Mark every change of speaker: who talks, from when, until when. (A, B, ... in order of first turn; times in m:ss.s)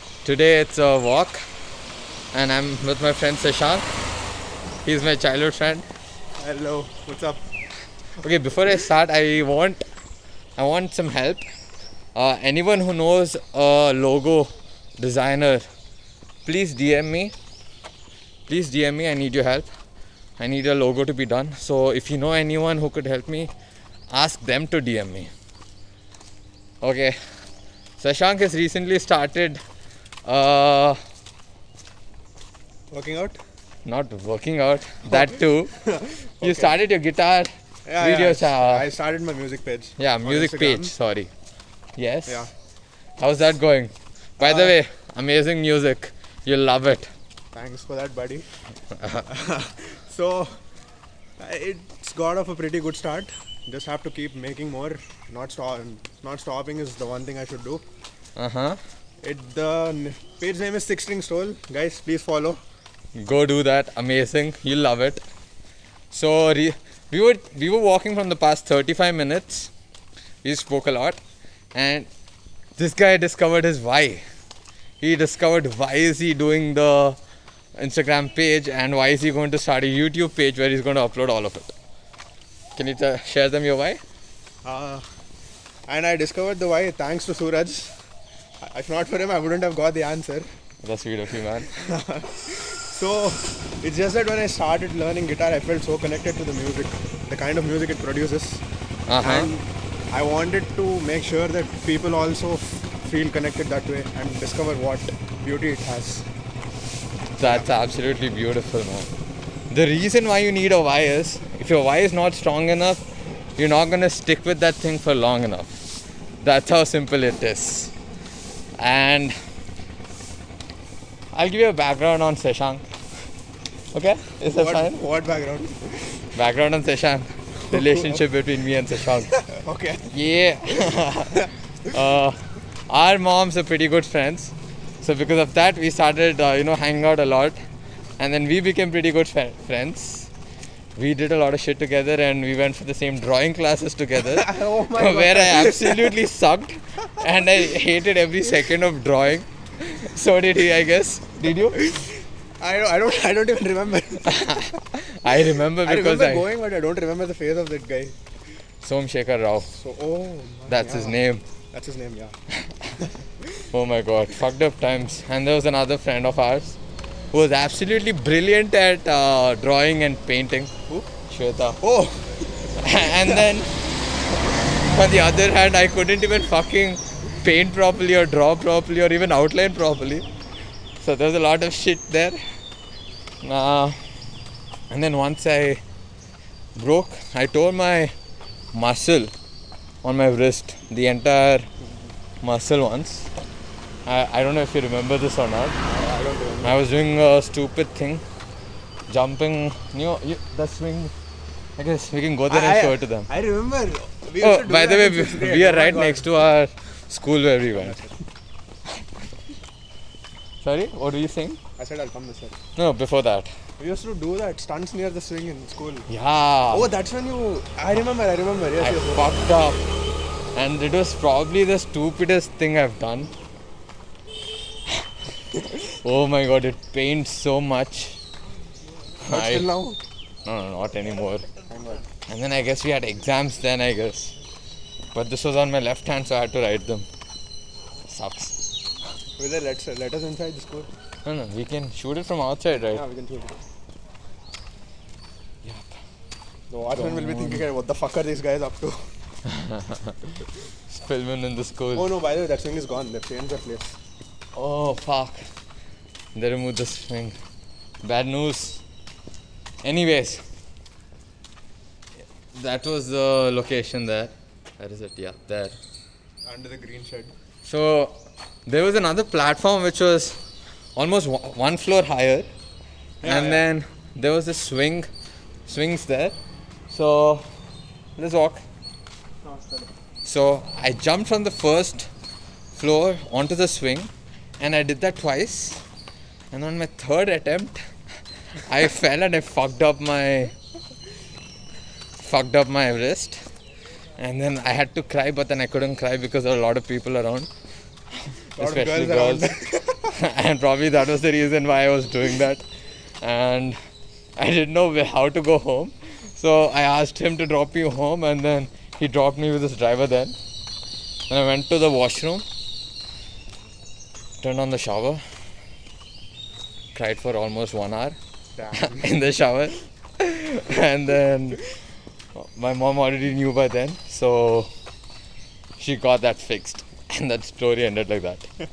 0:00.2-0:01.4 A
0:02.3-0:03.8 A
0:04.8-0:05.8 A
0:06.4-0:07.4 B
0:08.2-0:09.8 A
0:10.6-0:11.4 A
0:12.1-0:15.6 A
0:16.4-0:17.3 A
0:18.5-0:19.7 A
0:20.4-0:23.5 A
0:24.1-0:25.3 A
0:26.8-0:27.2 A
0:28.0-0:29.6 A
0:30.2-0:31.0 A
0:32.9-0:33.4 B
0:33.8-0:35.8 A
0:35.1-0:36.8 B
0:36.4-0:38.9 A
0:37.9-0:40.9 B
0:40.0-0:41.3 A
0:42.0-0:42.5 A
0:42.2-0:42.5 B
0:43.2-0:47.1 A
0:44.4-0:44.8 B
0:47.5-0:48.5 B
0:49.0-0:49.2 A
0:49.2-0:50.6 B
0:51.4-0:57.8 B
0:58.4-0:58.8 A
0:59.2-1:02.6 B
1:03.1-1:05.2 A
1:06.1-1:09.7 A
1:10.4-1:11.2 A
1:11.7-1:12.1 A
1:12.8-1:14.2 A
1:15.0-1:17.2 A
1:17.8-1:21.7 A
1:22.8-1:24.0 A
1:24.6-1:25.0 B
1:25.9-1:28.0 B
1:28.6-1:30.5 B
1:30.8-1:31.7 A
1:31.6-1:38.6 B
1:39.1-1:39.5 A
1:39.2-1:46.3 B
1:47.3-1:49.1 A
1:47.4-1:47.7 B
1:49.7-1:53.0 A
1:53.6-1:55.8 A
1:56.4-1:57.9 A
1:58.8-1:59.4 A
2:01.3-2:02.8 A
2:03.9-2:05.0 A
2:04.5-2:06.2 B
2:06.3-2:09.4 A
2:07.7-2:08.2 B
2:09.0-2:10.2 B
2:10.1-2:17.6 A
2:10.8-2:11.5 B
2:18.2-2:20.3 A
2:21.0-2:31.9 A
2:24.2-2:26.2 B
2:31.4-2:34.8 B
2:34.3-2:36.4 A
2:35.3-2:38.1 B
2:38.8-2:39.7 A
2:39.7-2:42.3 B
2:40.7-2:41.4 A
2:42.6-2:42.9 A
2:43.0-2:43.6 B
2:43.7-2:46.8 A
2:47.3-2:51.8 A
2:51.8-2:53.5 B
2:52.8-2:53.8 A
2:54.8-3:00.2 A
3:01.0-3:02.4 A
3:03.4-3:04.0 A
3:04.9-3:05.8 A
3:06.8-3:08.1 A
3:08.7-3:09.3 A
3:10.0-3:11.7 A
3:12.4-3:13.3 A
3:14.0-3:15.8 A
3:15.8-3:16.8 B
3:16.6-3:18.2 A
3:19.1-3:21.1 A
3:21.8-3:23.3 A
3:22.5-3:26.4 B
3:24.4-3:28.0 A
3:27.7-3:28.2 B
3:30.6-3:31.6 A
3:31.8-3:32.6 B
3:32.8-3:33.5 A
3:33.8-3:36.1 B
3:36.1-3:36.9 A
3:36.7-3:39.3 B
3:38.8-3:39.8 A
3:40.5-3:43.3 A
3:45.8-3:48.2 A
3:49.2-3:49.7 A
3:49.3-3:50.0 B
3:50.4-3:51.5 A
3:51.7-3:52.0 B
3:52.3-3:54.3 A
3:55.1-3:57.0 A
3:58.0-3:58.5 A
3:59.4-4:00.9 B
4:01.2-4:03.0 A
4:02.9-4:03.6 B
4:05.6-4:06.0 A
4:06.7-4:09.1 B
4:06.9-4:07.6 A
4:09.5-4:12.1 A
4:11.9-4:14.0 B
4:14.5-4:15.4 A
4:16.3-4:17.4 A
4:18.0-4:18.8 A
4:19.8-4:20.4 A
4:22.5-4:25.8 A
4:26.4-4:27.3 B
4:27.6-4:30.4 A
4:31.0-4:32.5 A
4:33.2-4:33.6 B
4:33.2-4:35.1 A
4:35.7-4:36.4 A
4:36.9-4:37.5 A
4:38.2-4:38.6 A
4:39.4-4:39.9 B
4:40.2-4:42.1 A
4:42.7-4:45.8 A
4:46.5-4:47.8 A
4:48.5-4:50.5 A
4:52.2-4:53.4 A
4:54.2-4:57.5 A
4:58.3-5:03.8 A
4:58.6-5:00.1 B
5:04.4-5:10.3 A
5:11.3-5:12.4 A
5:14.4-5:15.2 A
5:16.9-5:18.2 A
5:18.6-5:19.1 B
5:18.7-5:24.7 A
5:25.8-5:28.5 A